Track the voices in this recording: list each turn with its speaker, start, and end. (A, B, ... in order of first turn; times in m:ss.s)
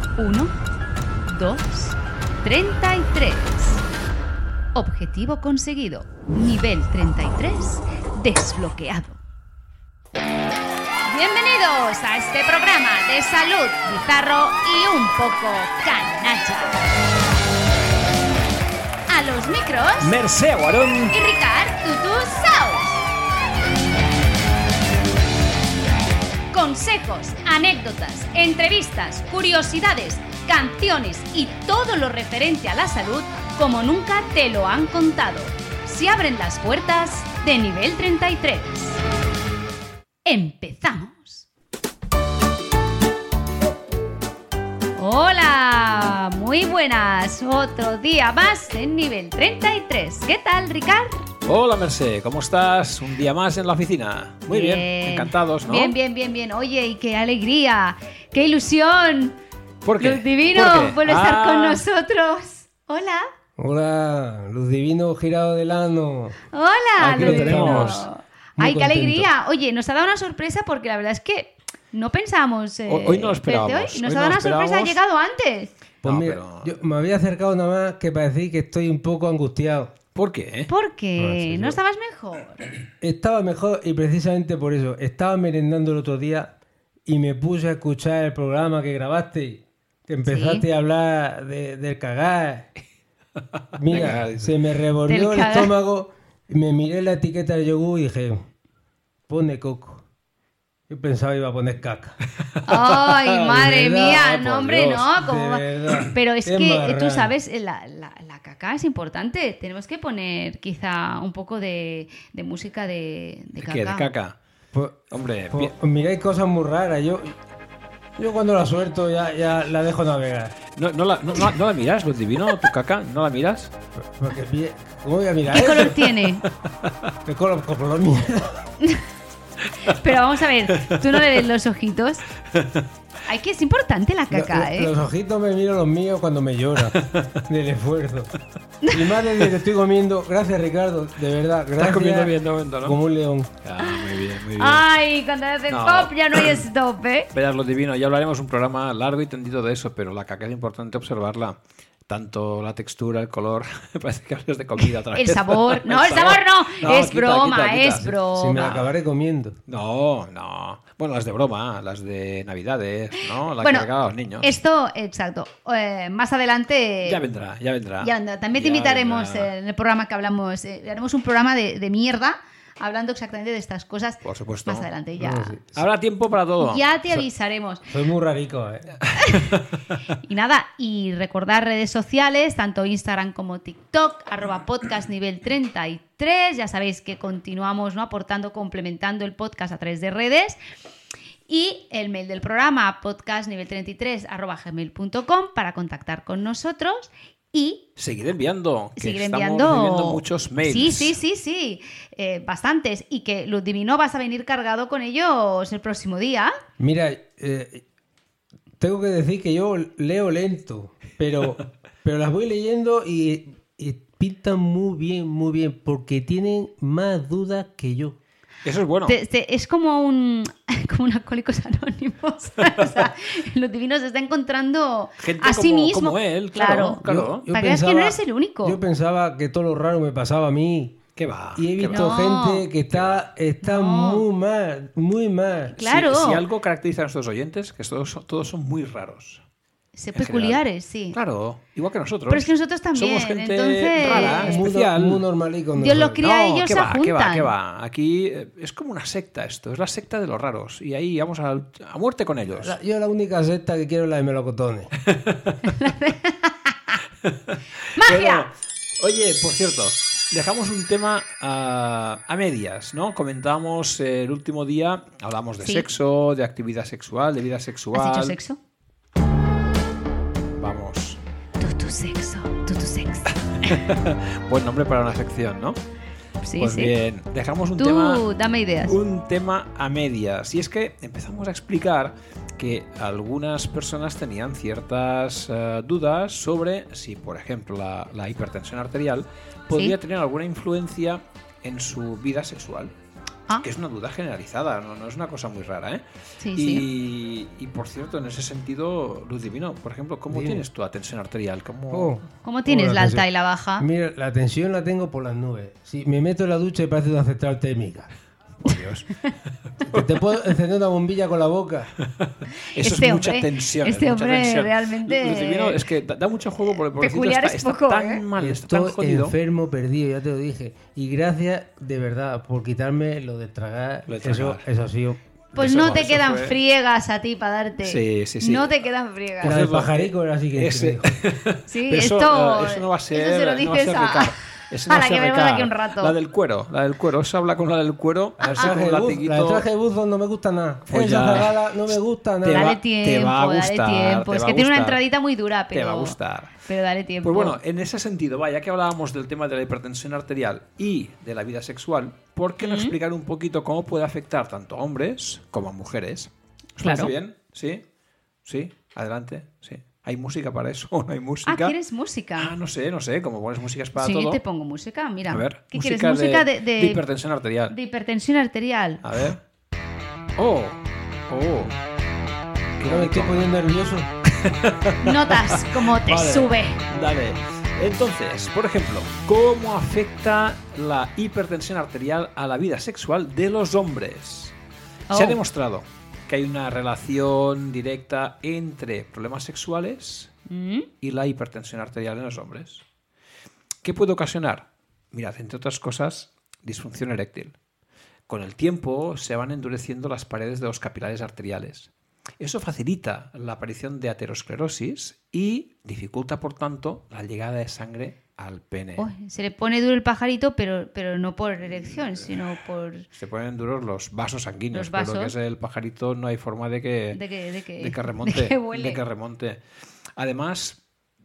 0:00.2-0:00.5 A
0:01.3-0:03.8 A
0:04.8-0:09.2 A
0:11.0-0:17.0 A
0:19.1-0:20.2 A
0:20.0-0:21.2 B
0:21.1-0:23.0 A
0:26.5-0:39.0 A
0:40.3-0:41.5 A
0:45.0-0:51.2 A
0:51.4-0:56.0 B
0:54.5-0:59.4 A
0:59.8-1:01.8 B
1:00.0-1:03.3 A
1:03.6-1:06.4 C
1:06.5-1:15.7 A
1:07.0-1:08.1 B
1:07.0-1:09.3 C
1:12.9-1:15.0 B
1:16.0-1:19.9 C
1:16.0-1:16.8 B
1:20.2-1:20.7 B
1:20.7-1:22.6 A
1:21.2-1:21.8 C
1:23.0-1:26.5 C
1:27.1-1:32.7 C
1:30.2-1:30.7 A
1:33.6-1:34.6 B
1:33.8-1:38.5 C
1:35.1-1:35.8 A
1:39.3-1:40.0 C
1:40.9-1:42.2 C
1:42.6-1:45.1 B
1:42.6-1:54.1 A
1:43.4-1:44.3 C
1:45.2-1:47.3 C
1:53.6-1:54.4 B
1:54.7-1:55.0 C
1:55.1-1:55.7 B
1:55.5-1:57.4 C
1:58.2-2:00.6 C
2:00.8-2:03.7 B
2:04.0-2:06.0 C
2:05.5-2:06.5 A
2:05.6-2:06.9 B
2:07.2-2:08.7 C
2:09.8-2:12.3 A
2:12.5-2:12.8 B
2:13.3-2:14.9 A
2:14.3-2:18.3 C
2:16.9-2:17.4 B
2:18.9-2:23.5 C
2:21.8-2:23.0 B
2:23.6-2:24.9 B
2:23.8-2:27.3 A
2:25.7-2:26.6 B
2:27.3-2:38.2 B
2:35.1-2:38.9 A
2:38.4-2:39.6 C
2:39.7-2:44.5 B
2:43.2-2:43.9 A
2:44.4-2:47.2 A
2:47.0-2:49.5 B
2:48.0-2:55.6 A
2:54.2-2:54.9 B
2:55.2-2:55.8 C
2:55.7-2:57.2 B
2:56.6-2:57.9 A
2:57.9-2:59.0 C
2:59.1-2:59.6 B
2:59.2-2:59.5 A
3:00.2-3:10.6 A
3:11.5-3:17.9 A
3:18.0-3:21.2 B
3:19.0-3:26.6 A
3:26.8-3:27.8 C
3:28.8-3:38.2 C
3:38.6-3:39.2 B
3:39.1-3:48.8 A
3:45.2-3:47.5 B
3:47.0-3:51.0 C
3:51.2-3:52.1 B
3:51.6-3:55.8 C
3:51.9-3:52.7 A
3:52.9-3:53.3 B
3:53.6-3:54.3 A
3:55.7-3:56.4 A
3:55.8-3:59.4 B
4:00.0-4:01.2 A
4:00.2-4:00.6 B
4:01.1-4:05.3 B
4:02.3-4:04.6 A
4:04.0-4:06.2 C
4:05.8-4:07.5 A
4:06.2-4:12.8 B
4:12.6-4:14.9 C
4:15.0-4:15.7 B
4:15.6-4:16.9 A
4:17.3-4:28.4 B
4:18.0-4:18.5 A
4:27.9-4:28.6 A
4:30.6-4:31.2 B
4:31.6-4:33.8 A
4:33.6-4:35.8 B
4:36.4-4:36.9 A
4:36.6-4:38.2 B
4:37.8-4:39.0 A
4:38.8-4:52.9 B
4:53.6-4:56.0 B
4:56.4-4:56.8 A
4:56.6-5:02.2 B
5:00.3-5:00.6 C
5:01.9-5:03.3 C
5:02.4-5:03.9 A
5:03.8-5:08.1 C
5:08.6-5:09.1 B
5:09.7-5:10.1 B
5:09.9-5:11.9 C
5:12.2-5:19.4 B
5:12.8-5:15.8 A
5:16.7-5:18.2 A
5:18.4-5:26.0 C
5:24.1-5:24.6 B
5:25.6-5:26.6 B
5:25.6-5:29.6 A
5:27.8-5:28.8 B
5:29.4-5:39.7 B
5:29.4-5:31.2 C
5:31.7-5:34.3 A
5:34.9-5:36.2 A
5:38.4-5:42.8 C
5:40.9-5:45.0 B
5:42.5-5:47.6 A
5:45.7-5:46.6 B
5:47.2-5:57.8 B
5:52.6-5:53.0 A
5:56.8-5:57.1 A
5:58.4-6:01.7 B
6:01.5-6:02.5 A
6:02.4-6:04.4 B
6:04.0-6:07.0 A
6:05.3-6:07.7 B
6:07.7-6:09.0 A
6:09.0-6:09.4 B
6:10.4-6:11.8 B
6:12.8-6:13.4 B
6:12.9-6:14.1 C
6:14.3-6:24.5 B
6:15.0-6:16.9 A
6:25.1-6:25.4 A
6:25.1-6:30.3 B
6:30.5-6:30.9 A
6:31.0-6:32.8 B
6:33.8-6:37.6 B
6:38.3-6:49.1 B
6:49.0-6:53.1 A
6:53.1-6:57.2 B
6:54.7-6:55.3 A
6:57.1-6:59.0 A
6:57.8-6:59.6 B
7:00.2-7:00.8 B